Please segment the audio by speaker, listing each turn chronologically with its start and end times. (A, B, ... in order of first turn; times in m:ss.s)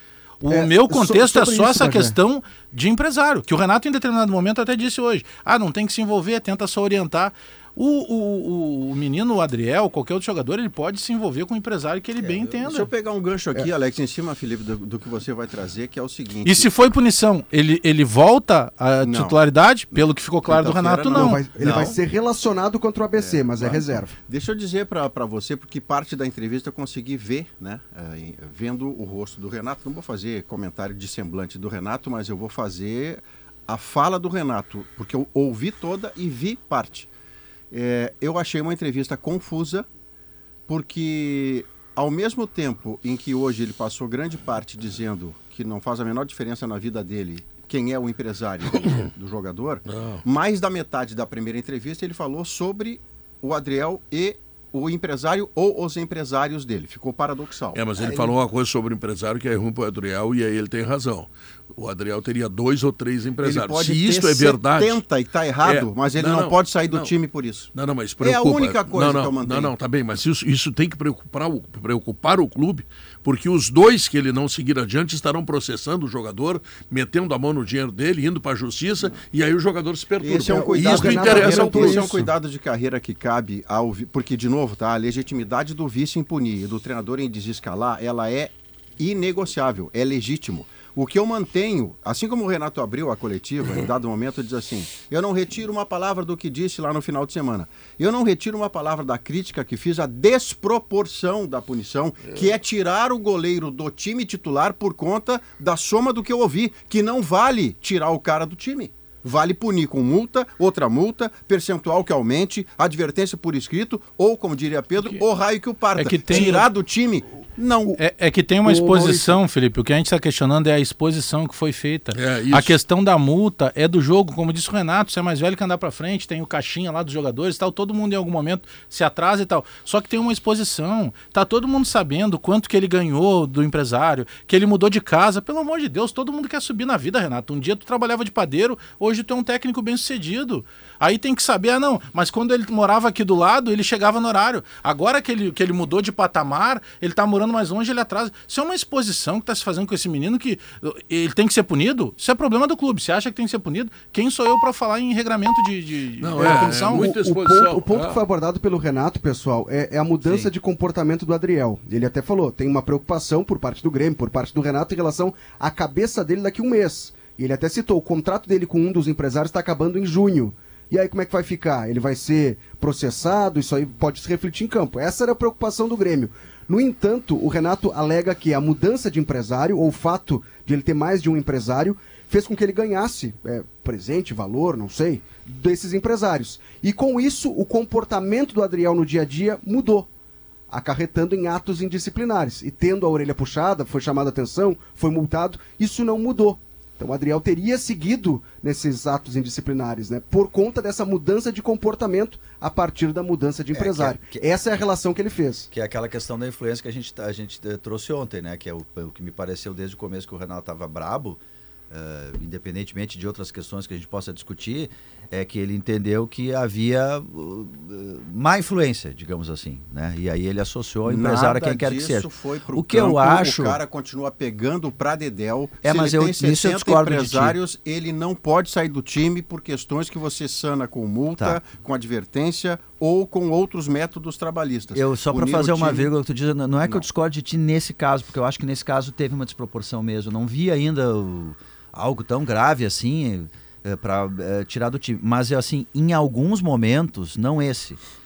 0:00.4-0:12.9 A
0:00.5-0:02.2 B
0:12.5-0:16.7 C
0:16.4-0:21.4 A
0:19.0-0:19.4 C
0:19.9-0:22.0 C
0:21.1-0:24.1 B
0:21.6-0:22.0 D
0:23.2-0:37.1 C
0:37.7-0:39.8 C
0:40.7-0:58.3 C
0:48.7-0:49.1 E
0:49.9-0:50.2 E
0:57.7-1:05.0 E
1:03.4-1:09.7 C
1:05.6-1:07.1 E
1:07.7-1:22.2 E
1:20.2-1:58.0 C
1:20.4-1:22.2 B
1:56.0-1:56.7 A
1:58.0-2:37.0 A
1:58.6-1:59.4 B
2:02.1-2:02.8 E
2:36.2-2:38.2 E
2:36.4-3:10.1 B
3:10.7-3:25.7 B
3:23.7-3:24.4 D
3:25.7-3:43.8 D
3:41.0-3:56.1 C
3:45.8-3:47.6 D
3:54.9-4:08.0 D